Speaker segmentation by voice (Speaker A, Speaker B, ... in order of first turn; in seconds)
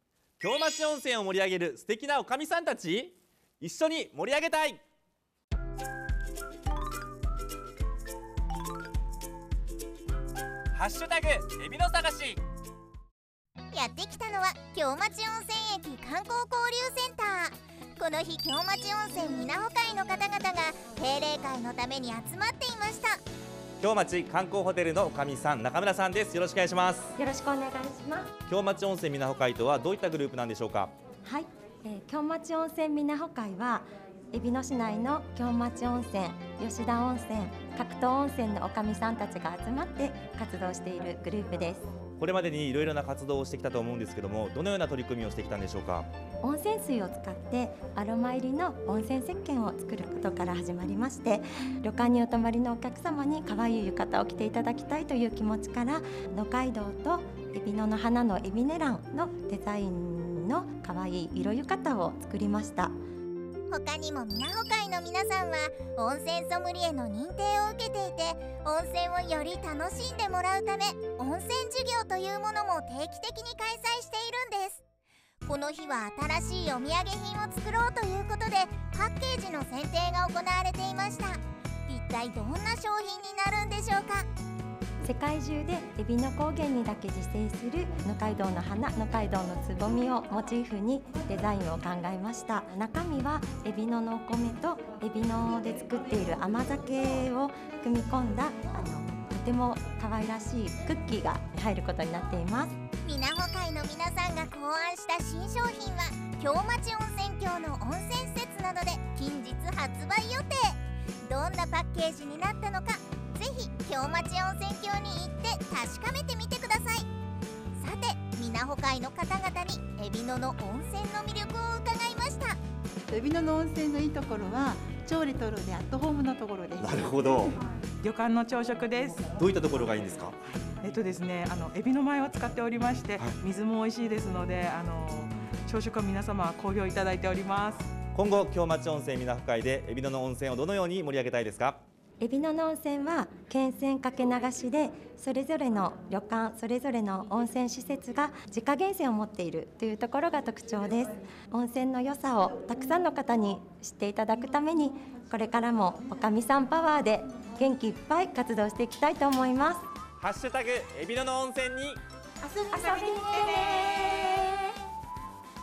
Speaker A: 0.4-4.8, 10.7-12.4, 23.8-27.1, 28.5-30.9, 42.2-46.1, 126.8-127.5, 129.4-130.3, 138.1-141.8, 160.2-162.0
Speaker B: 13.7-23.2, 63.7-74.8, 75.4-84.2, 103.0-117.1, 117.8-122.6
Speaker C: 27.1-28.3, 31.2-41.8, 46.4-62.9, 85.0-102.7, 142.2-159.8
Speaker D: 123.1-127.2, 162.7-163.8
Speaker E: 128.0-129.3, 130.6-137.9, 162.4-164.5